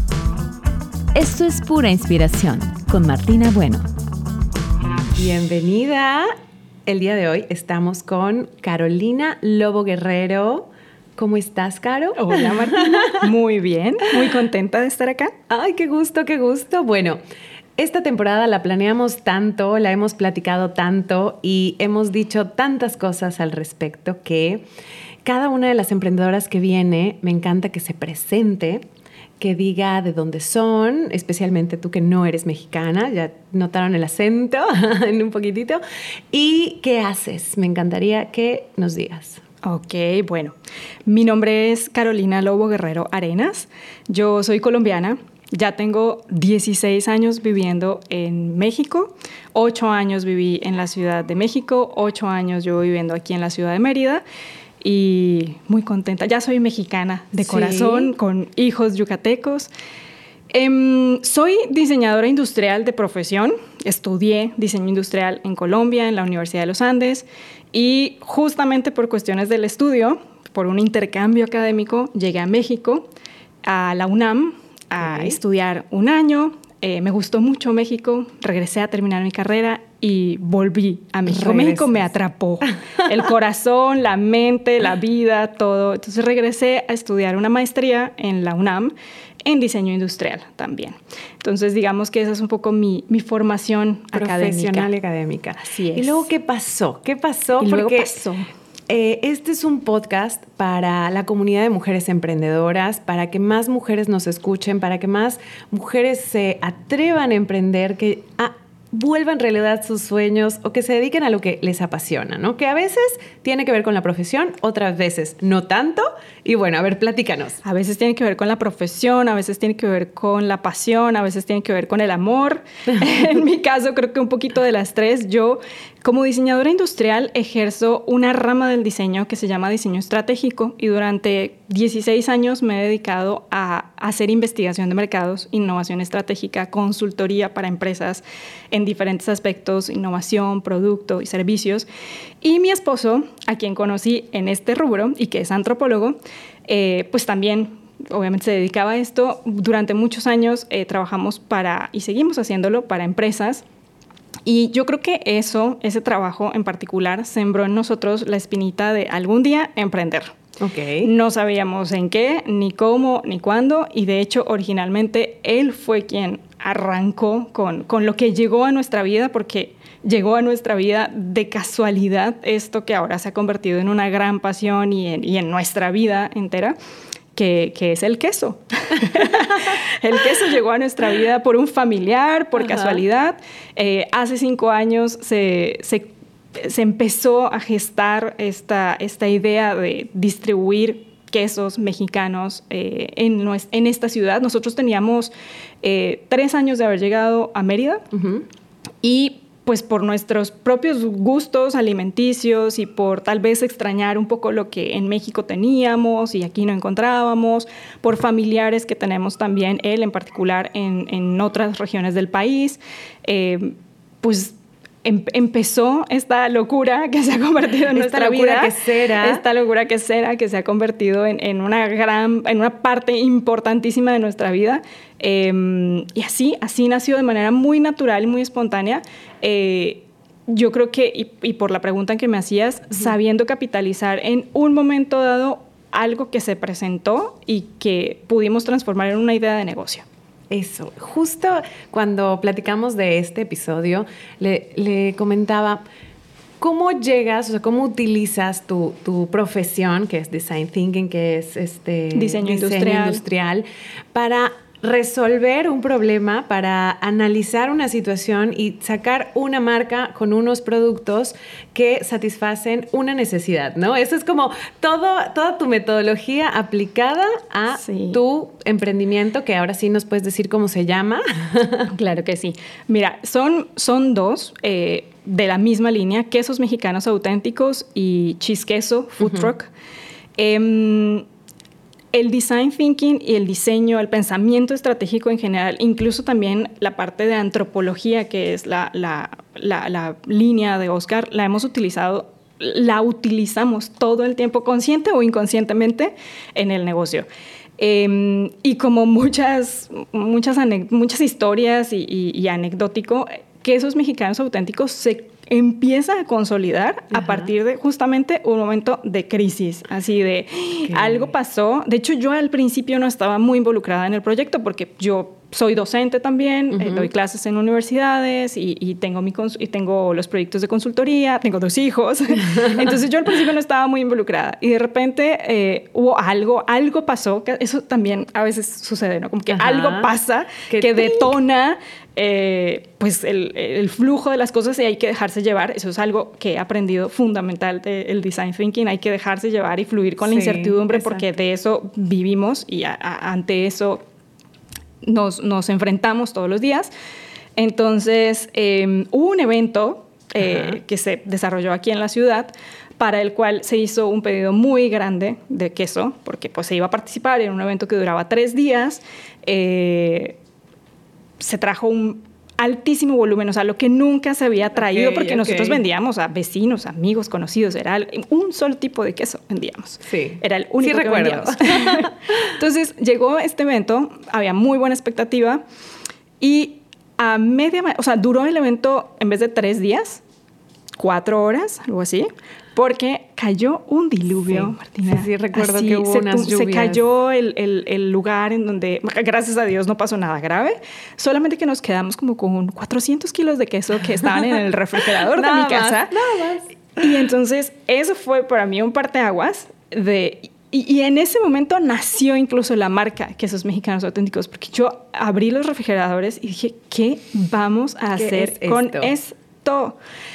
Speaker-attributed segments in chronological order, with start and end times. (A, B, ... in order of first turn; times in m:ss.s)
0:01.1-0:03.9 A
0:05.1-0:06.3 B
0:06.8-0:13.3 B
0:12.2-0:15.3 C
0:15.5-0:17.2 B
0:17.8-0:24.6 B
0:25.2-0:28.8 B
0:29.4-0:35.8 B
0:36.3-0:39.4 B
0:39.6-0:40.5 C
0:41.1-0:54.2 C
0:54.8-0:59.7 C
0:57.3-0:58.1 B
1:00.5-1:13.1 C
1:13.6-1:28.9 C
1:15.0-1:15.4 B
1:21.2-1:22.0 B
1:29.4-1:34.9 C
1:34.1-1:38.2 B
1:35.6-1:36.3 C
1:37.6-1:38.4 C
1:38.9-1:57.6 B
1:57.6-2:21.9 C
2:22.4-2:33.6 C
2:34.4-2:40.3 C
2:40.6-2:41.1 B
2:41.0-2:56.7 C
2:57.4-3:15.3 C
2:59.2-2:59.7 B
3:02.6-3:03.0 B
3:15.8-3:18.0 C
3:18.1-3:18.4 B
3:19.0-4:00.0 C
3:37.9-3:39.4 B
4:00.5-4:05.8 B
4:06.6-4:31.9 B
4:12.1-4:13.2 C
4:27.8-4:28.2 C
4:31.9-4:39.7 C
4:39.2-4:39.5 B
4:40.4-4:41.2 C
4:42.1-4:57.2 C
4:57.8-5:44.0 C
5:07.1-5:07.5 B
5:10.9-5:11.3 B
5:16.7-5:17.1 B
5:29.5-5:30.1 B
5:30.7-5:31.3 B
5:40.2-5:41.2 B
5:45.0-5:46.9 C
5:47.6-6:00.4 C
5:50.4-5:50.8 B
6:01.4-6:15.6 C
6:04.8-6:05.8 B
6:10.1-6:12.5 B
6:16.4-6:20.2 C
6:21.0-6:36.1 C
6:24.4-6:27.0 B
6:34.2-6:34.5 B
6:35.0-6:36.7 B
6:37.0-6:50.0 C
6:48.1-6:49.1 B